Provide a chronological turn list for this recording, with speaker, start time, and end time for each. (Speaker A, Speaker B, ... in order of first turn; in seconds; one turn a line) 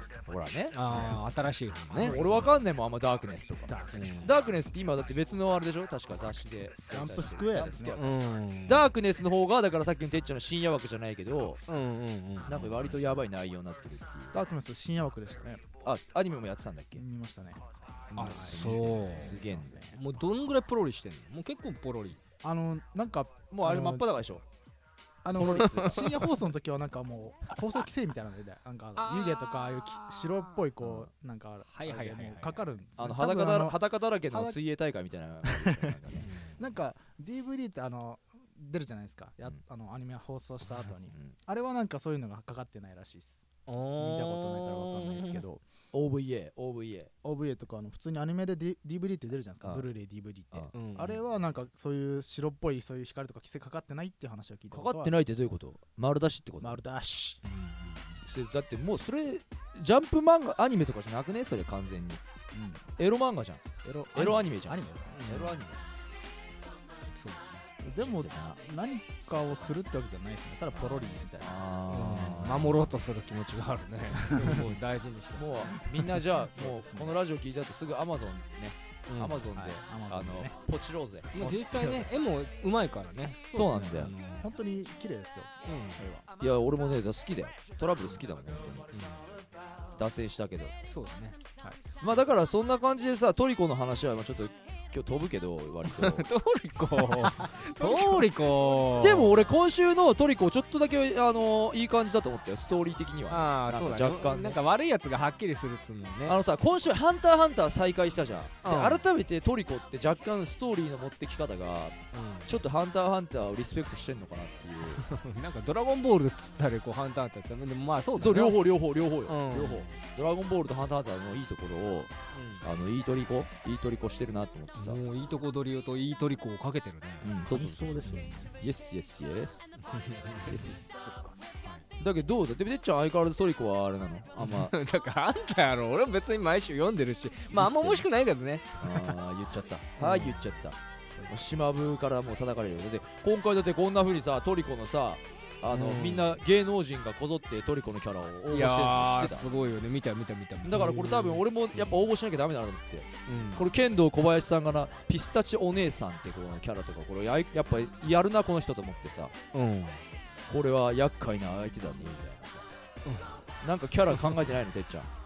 Speaker A: 0.3-0.8
Speaker B: 0.7-2.2
Speaker A: 1.9-11.6
Speaker C: 1.9-2.5
Speaker C: 3.7-4.1
Speaker B: 3.9-4.3
Speaker C: 6.9-8.0
Speaker B: 8.0-8.9
Speaker B: 11.7-12.6
Speaker A: 12.5-14.4
Speaker C: 12.6-13.0
Speaker C: 14.3-15.6
Speaker A: 15.8-17.0
Speaker C: 16.9-18.6
Speaker A: 18.1-19.8
Speaker B: 18.1-19.4
Speaker C: 19.2-20.0
Speaker B: 19.9-22.2
Speaker C: 22.4-24.1
Speaker A: 23.5-24.4
Speaker C: 25.2-34.6
Speaker A: 25.4-26.2
Speaker B: 25.4-26.1
Speaker B: 29.0-30.6
Speaker A: 30.8-31.1
Speaker B: 31.7-32.8
Speaker A: 33.0-36.3
Speaker C: 35.4-36.0
Speaker B: 36.2-36.6
Speaker C: 36.6-43.4
Speaker B: 43.7-45.4
Speaker C: 44.0-45.6
Speaker A: 45.9-47.1
Speaker C: 47.2-55.2
Speaker B: 50.7-51.2
Speaker A: 54.7-56.8
Speaker C: 56.6-57.4
Speaker B: 57.4-58.1
Speaker A: 58.2-62.2
Speaker C: 62.5-62.8
Speaker A: 63.0-65.8
Speaker C: 63.8-65.4
Speaker B: 65.1-65.6
Speaker B: 67.1-67.6
Speaker C: 67.8-71.6
Speaker A: 68.0-68.6
Speaker A: 70.7-72.9
Speaker B: 71.9-75.7
Speaker C: 74.3-74.6
Speaker A: 75.3-81.3
Speaker C: 76.5-77.1
Speaker B: 79.1-79.4
Speaker C: 79.5-80.5
Speaker B: 81.3-84.5
Speaker C: 81.3-82.1
Speaker A: 83.5-84.1
Speaker C: 83.5-86.2
Speaker B: 85.7-86.0
Speaker A: 86.4-88.9
Speaker B: 88.9-89.2
Speaker A: 90.0-90.7
Speaker B: 90.8-91.7
Speaker A: 92.0-96.3
Speaker B: 95.8-99.3
Speaker A: 97.8-98.2
Speaker A: 99.0-104.6
Speaker B: 103.3-106.4
Speaker A: 106.2-115.0
Speaker B: 108.6-109.0
Speaker B: 112.1-112.5
Speaker B: 115.0-118.6
Speaker A: 118.2-125.0
Speaker B: 119.3-119.9
Speaker B: 122.3-122.6
Speaker B: 124.8-128.4
Speaker A: 127.2-129.7
Speaker C: 127.5-128.5
Speaker B: 129.8-131.8
Speaker A: 130.4-130.8
Speaker A: 132.0-134.7
Speaker B: 134.4-139.1
Speaker A: 137.5-138.1
Speaker A: 138.8-149.5
Speaker B: 140.0-140.5
Speaker B: 145.7-146.3
Speaker B: 148.5-152.0
Speaker A: 150.6-159.3
Speaker B: 153.3-153.6
Speaker B: 159.5-160.0
Speaker A: 160.5-162.7
Speaker B: 163.1-163.4
Speaker A: 163.6-165.1